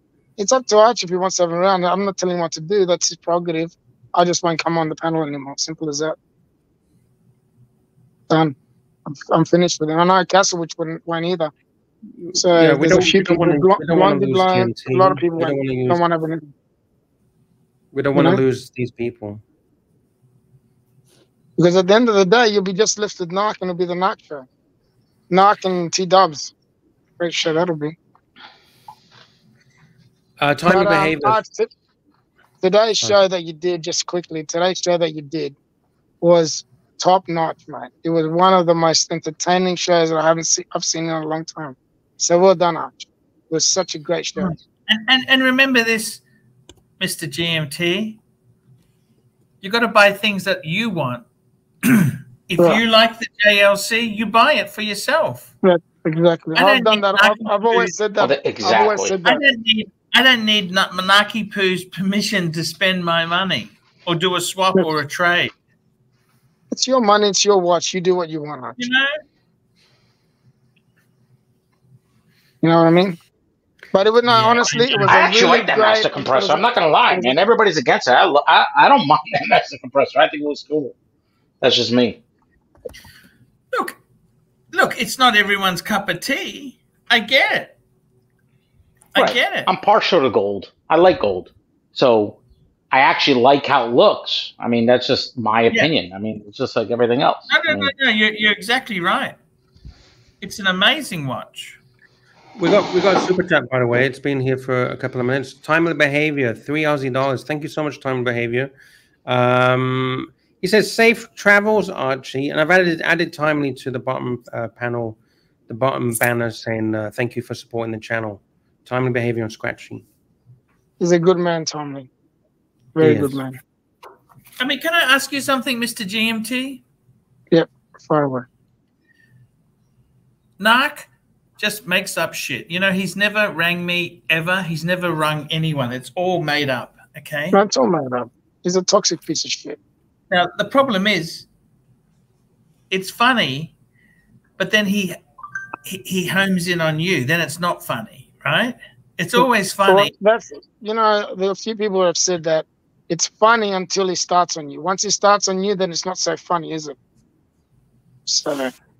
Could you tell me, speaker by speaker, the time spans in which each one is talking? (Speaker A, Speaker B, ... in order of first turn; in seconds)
Speaker A: 0.4-6.2, 8.3-8.5, 9.1-11.5, 12.3-16.5, 18.1-18.4, 21.6-24.5, 25.3-26.5, 27.2-27.9, 30.6-31.7, 32.6-35.5, 36.2-44.6, 52.6-52.8, 55.6-59.4, 66.7-68.8, 72.6-73.2, 73.9-77.3, 121.0-122.1, 123.0-123.6, 127.5-128.5, 137.5-139.8, 149.4-156.9, 158.2-158.7
Speaker B: 12.2-16.0, 17.9-19.4, 30.4-31.4, 102.6-108.7, 109.2-120.0, 123.0-123.4
Speaker C: 44.4-46.2, 47.0-48.2, 49.6-51.2, 51.8-55.5, 56.5-58.0, 59.2-65.5, 68.8-69.2, 74.3-75.4, 84.7-87.7, 89.1-89.7, 97.5-99.3, 100.4-101.8, 124.6-126.8, 130.6-137.6, 140.3-141.5, 142.9-143.7, 144.6-145.2, 145.8-150.1
Speaker D: 58.2-59.2, 75.1-80.9, 81.6-82.2, 89.2-92.4, 92.9-97.9